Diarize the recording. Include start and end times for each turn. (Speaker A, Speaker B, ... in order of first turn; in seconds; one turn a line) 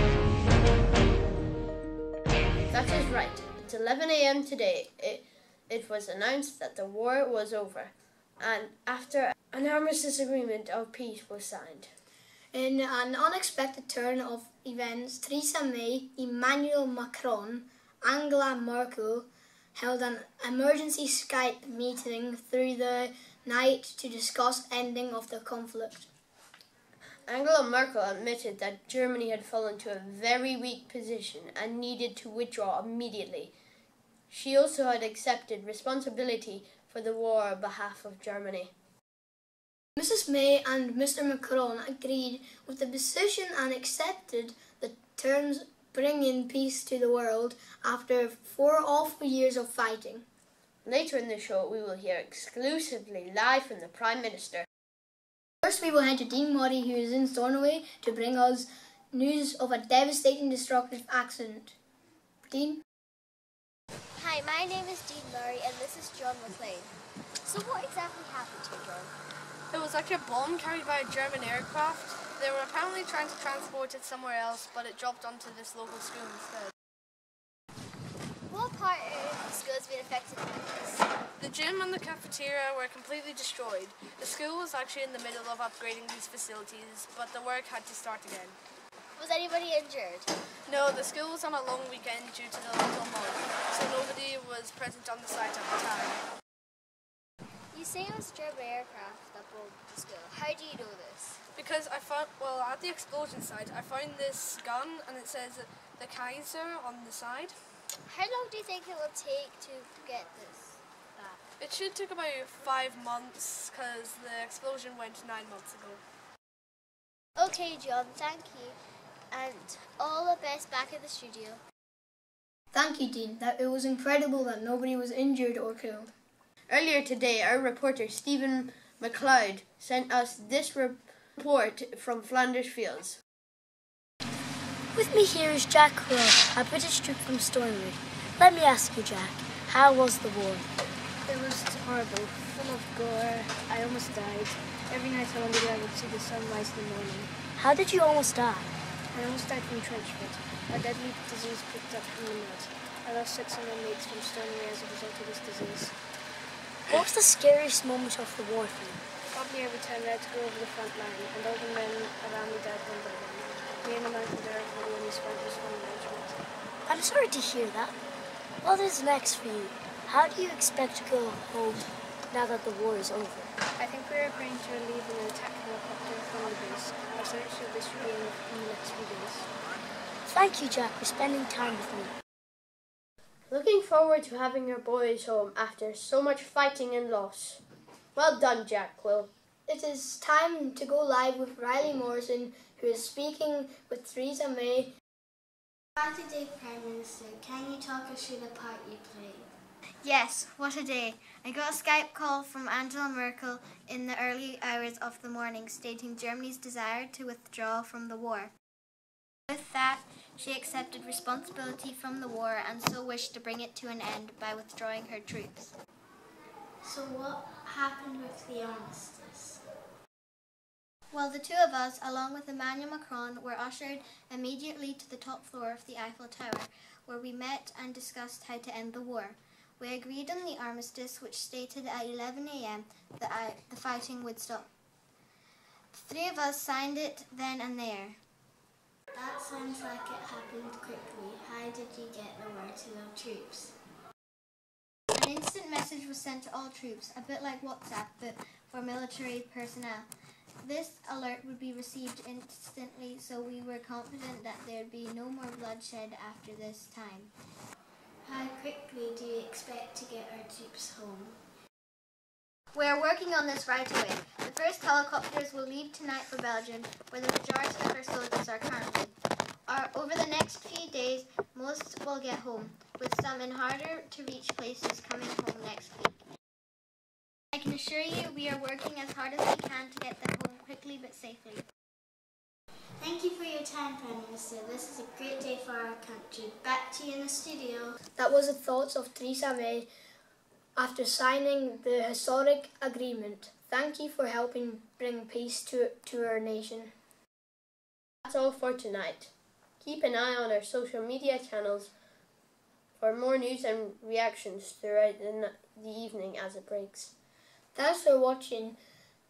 Speaker A: 2.7-11.9
Speaker B: 12.5-26.1
Speaker A: 27.2-33.5
Speaker A: 34.3-38.7
Speaker B: 40.0-50.2
Speaker A: 50.8-54.7
Speaker B: 55.6-61.7
Speaker B: 62.5-62.8
Speaker C: 64.2-69.1
Speaker D: 69.7-76.7
Speaker C: 78.5-81.1
Speaker D: 81.4-88.5
Speaker C: 89.2-90.3
Speaker D: 90.7-96.2
Speaker C: 97.7-101.4
Speaker D: 101.5-107.5
Speaker C: 108.0-111.4
Speaker D: 111.6-116.0
Speaker C: 117.4-118.8
Speaker C: 119.3-121.6
Speaker B: 122.7-126.1
Speaker A: 126.7-133.2
Speaker E: 134.9-140.7
Speaker F: 141.3-147.3
Speaker E: 147.6-148.7
Speaker F: 149.2-155.9
Speaker E: 156.9-159.0
Speaker F: 159.3-166.4
Speaker E: 166.9-167.9
Speaker E: 168.6-173.5
Speaker F: 173.8-179.5
Speaker E: 180.2-182.1
Speaker A: 183.5-187.6
Speaker A: 188.1-189.3
Speaker B: 189.7-194.9
Speaker G: 196.0-199.5
Speaker H: 200.0-208.5
Speaker H: 209.5-215.7
Speaker G: 216.8-219.6
Speaker H: 221.1-234.7
Speaker H: 235.9-238.2
Speaker G: 239.1-243.8
Speaker H: 245.1-250.1
Speaker H: 250.6-257.3
Speaker G: 258.2-261.4
Speaker H: 262.7-269.1
Speaker H: 269.7-276.2
Speaker H: 277.5-281.6
Speaker G: 283.0-287.9
Speaker B: 288.1-289.9
Speaker B: 290.8-296.9
Speaker A: 298.2-301.9
Speaker A: 303.0-307.1
Speaker B: 307.7-308.8